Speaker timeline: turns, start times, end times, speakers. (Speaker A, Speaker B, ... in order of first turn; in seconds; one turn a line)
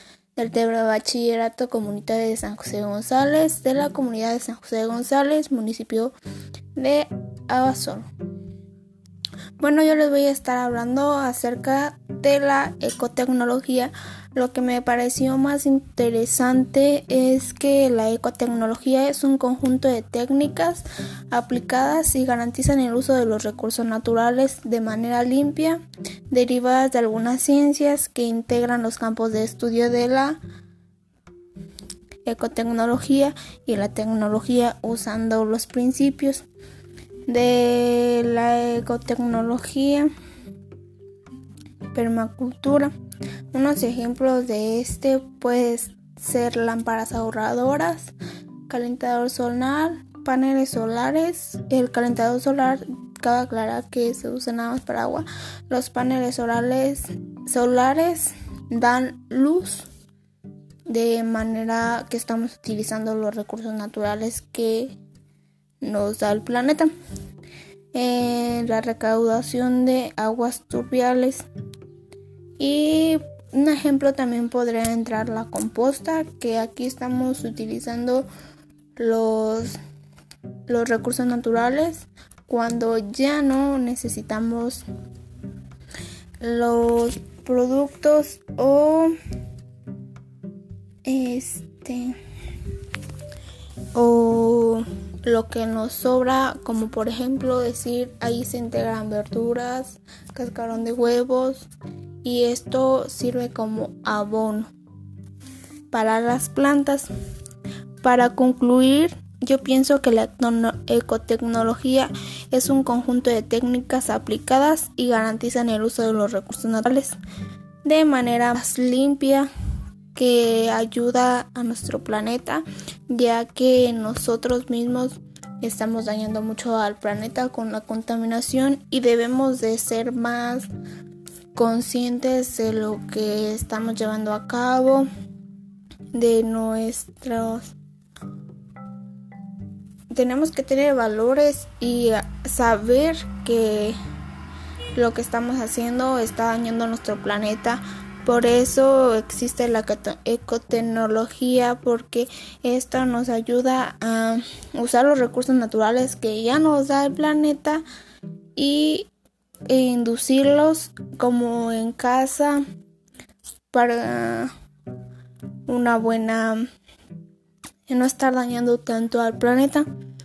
Speaker A: 0.3-6.1
Speaker A: 6.8-8.1
Speaker A: 9.6-30.4
Speaker A: 32.2-36.4
Speaker A: 37.3-40.1
Speaker A: 41.9-42.9
Speaker A: 43.5-48.1
Speaker A: 48.7-59.9
Speaker A: 60.9-65.0
Speaker A: 65.8-66.9
Speaker A: 67.9-71.4
Speaker A: 72.6-78.3
Speaker A: 79.0-79.8
Speaker A: 80.7-84.8
Speaker A: 86.4-89.1
Speaker A: 91.0-92.2
Speaker A: 93.9-101.7
Speaker A: 102.2-104.7
Speaker A: 105.9-107.1
Speaker A: 108.0-117.2
Speaker A: 117.8-119.5
Speaker A: 120.1-130.7
Speaker A: 131.5-135.1
Speaker A: 136.1-137.7
Speaker A: 140.1-144.0
Speaker A: 144.9-157.8
Speaker A: 158.6-159.1
Speaker A: 159.7-162.6
Speaker A: 163.7-164.5
Speaker A: 165.7-166.6
Speaker A: 167.9-169.9